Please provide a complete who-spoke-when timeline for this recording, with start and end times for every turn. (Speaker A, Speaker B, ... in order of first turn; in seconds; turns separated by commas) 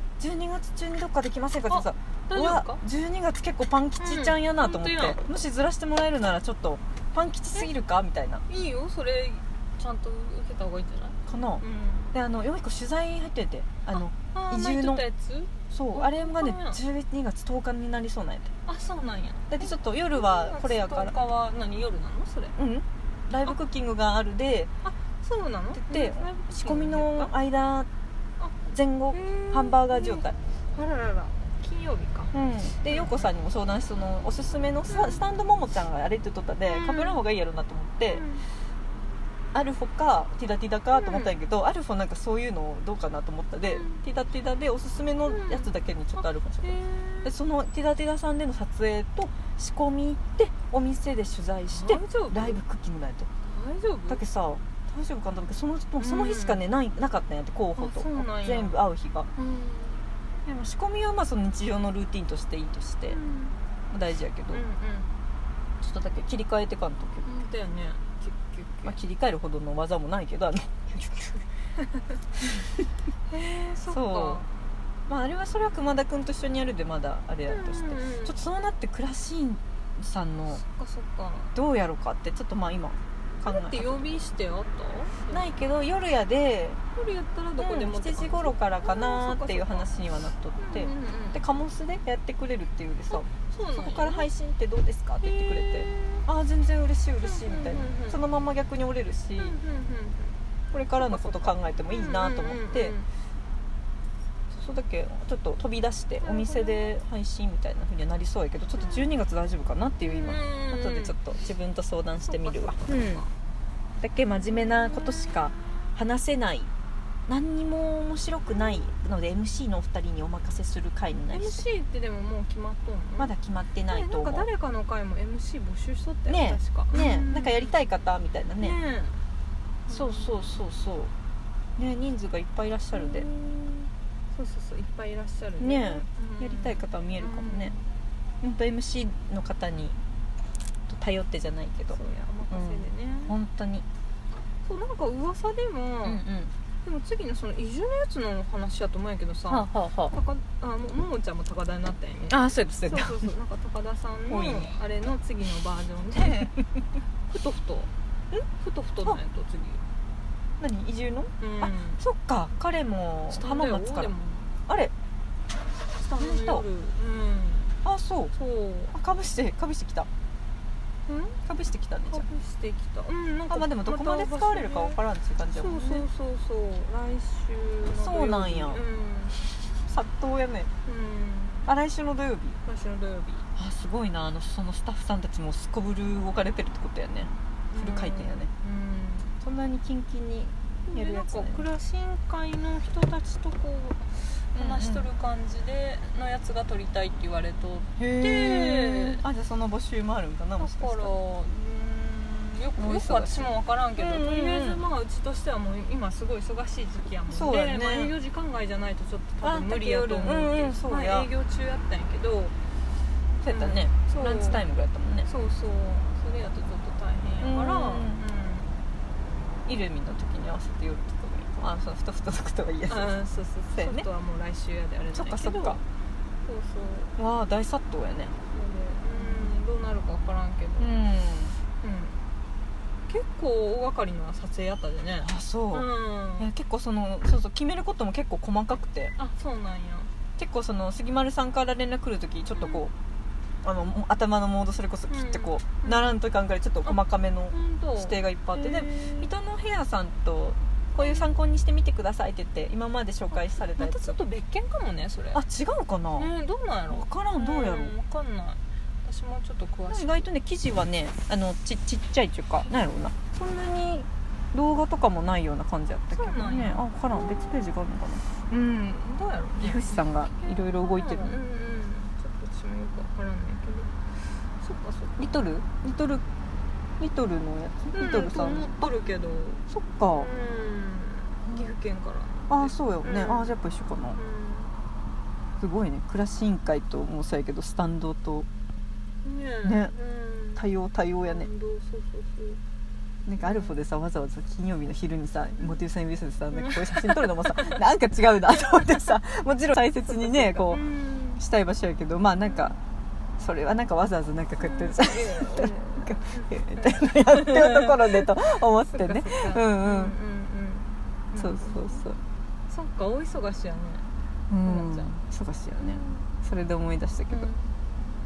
Speaker A: 0.2-8.4, Speaker B: 1.7-2.8, Speaker B: 4.0-5.2, Speaker B: 8.5-12.1, Speaker A: 11.3-15.1, Speaker B: 14.2-16.8, Speaker A: 15.7-18.5, Speaker B: 18.6-22.6, Speaker A: 19.5-21.2, Speaker A: 22.6-24.7, Speaker B: 24.8-27.3, Speaker A: 25.7-27.9, Speaker A: 28.7-30.4, Speaker B: 29.1-32.3, Speaker A: 32.3-38.3, Speaker B: 32.9-33.3, Speaker B: 34.9-35.2, Speaker B: 36.7-37.2, Speaker B: 38.1-38.5, Speaker A: 39.5-53.3, Speaker B: 41.0-41.3, Speaker B: 43.6-44.0, Speaker B: 45.3-45.7, Speaker B: 46.6-47.3, Speaker B: 51.7-52.6, Speaker B: 53.4-54.2, Speaker A: 54.1-59.3, Speaker B: 56.0-56.6, Speaker B: 57.8-58.8, Speaker B: 59.4-60.1, Speaker A: 60.5-63.2, Speaker B: 63.1-63.6, Speaker A: 63.9-64.6, Speaker B: 64.5-65.1, Speaker A: 65.8-67.3, Speaker B: 67.2-69.0, Speaker A: 68.8-71.4, Speaker B: 73.3-74.5, Speaker A: 73.8-74.4, Speaker A: 75.1-80.6, Speaker B: 77.5-78.4, Speaker B: 80.5-81.5, Speaker A: 81.5-84.1, Speaker B: 83.4-85.4, Speaker A: 85.3-86.8, Speaker B: 86.9-89.9, Speaker A: 87.6-99.6, Speaker B: 90.6-91.4, Speaker B: 93.3-94.3, Speaker B: 95.2-96.2, Speaker B: 97.2-98.2, Speaker B: 99.4-100.4, Speaker A: 100.7-103.0, Speaker B: 101.0-103.1, Speaker A: 104.5-113.2, Speaker B: 106.2-106.9, Speaker B: 110.0-111.2, Speaker B: 112.2-113.3, Speaker A: 114.0-116.7, Speaker A: 117.3-121.6, Speaker B: 121.3-123.3, Speaker A: 123.2-124.5, Speaker B: 123.9-127.7, Speaker A: 126.3-128.8, Speaker B: 128.6-129.2, Speaker B: 129.9-130.5, Speaker A: 129.9-131.1, Speaker A: 131.8-133.3, Speaker B: 132.9-137.9, Speaker A: 135.6-137.7, Speaker A: 138.4-140.0, Speaker A: 140.9-142.0, Speaker B: 141.9-143.4, Speaker A: 142.5-143.9, Speaker B: 144.6-146.3, Speaker A: 146.1-146.5, Speaker B: 146.8-156.6, Speaker A: 149.5-150.2, Speaker A: 152.3-153.3, Speaker A: 154.3-154.7, Speaker A: 156.1-156.6, Speaker B: 157.3-157.9, Speaker B: 158.6-159.8, Speaker A: 160.6-164.1, Speaker B: 161.4-162.0, Speaker B: 163.3-164.6, Speaker A: 164.7-164.9, Speaker B: 165.9-167.8, Speaker A: 166.2-166.7, Speaker A: 167.8-168.3, Speaker B: 168.3-168.9, Speaker A: 168.9-170.1, Speaker B: 171.1-171.4, Speaker A: 171.4-172.3, Speaker B: 172.1-175.0, Speaker A: 173.5-176.1, Speaker B: 175.5-179.4, Speaker A: 177.9-178.8, Speaker A: 179.9-180.7, Speaker B: 180.8-181.7, Speaker A: 181.7-182.6, Speaker B: 182.6-183.5, Speaker A: 183.6-188.5, Speaker B: 187.7-189.4, Speaker A: 189.4-191.7, Speaker B: 190.9-199.2, Speaker A: 194.6-195.1, Speaker A: 198.0-201.1, Speaker B: 200.6-212.6, Speaker A: 202.8-204.8, Speaker A: 207.3-208.1, Speaker A: 209.4-211.3, Speaker A: 213.4-215.3, Speaker B: 213.5-214.6, Speaker B: 215.2-218.7, Speaker A: 217.4-218.2, Speaker A: 219.7-223.1, Speaker B: 222.9-225.8, Speaker A: 223.8-224.1, Speaker A: 225.1-225.8, Speaker B: 226.4-227.2, Speaker A: 227.2-228.4, Speaker B: 228.5-230.9, Speaker A: 229.2-229.5, Speaker A: 230.8-231.6, Speaker B: 231.8-232.2, Speaker B: 233.1-236.5, Speaker A: 235.2-239.1, Speaker B: 239.2-240.1, Speaker A: 240.4-242.9, Speaker B: 242.6-242.8, Speaker A: 243.6-254.2, Speaker B: 245.1-246.1, Speaker B: 246.8-249.3, Speaker B: 251.0-251.3, Speaker B: 253.4-255.4, Speaker A: 255.3-256.3, Speaker B: 256.2-260.3, Speaker A: 256.9-257.9, Speaker A: 259.9-268.3, Speaker B: 266.1-267.7, Speaker B: 268.5-275.3, Speaker A: 269.6-271.4, Speaker A: 275.2-276.2, Speaker A: 277.0-278.7, Speaker B: 277.9-283.6, Speaker A: 279.7-280.3, Speaker A: 282.5-284.2, Speaker B: 284.1-284.8, Speaker A: 285.6-288.5, Speaker B: 289.2-290.7, Speaker A: 289.6-289.9, Speaker A: 290.6-291.5, Speaker B: 291.2-292.6, Speaker A: 293.3-302.8, Speaker B: 293.4-293.8, Speaker B: 296.5-297.8, Speaker B: 298.6-298.9, Speaker B: 300.1-301.4, Speaker B: 302.4-302.7, Speaker A: 303.4-310.2, Speaker B: 304.6-308.4, Speaker B: 308.9-312.1, Speaker A: 311.4-312.2, Speaker B: 312.7-314.1, Speaker A: 314.5-317.5, Speaker B: 314.6-315.1, Speaker B: 315.8-316.3, Speaker B: 317.3-317.7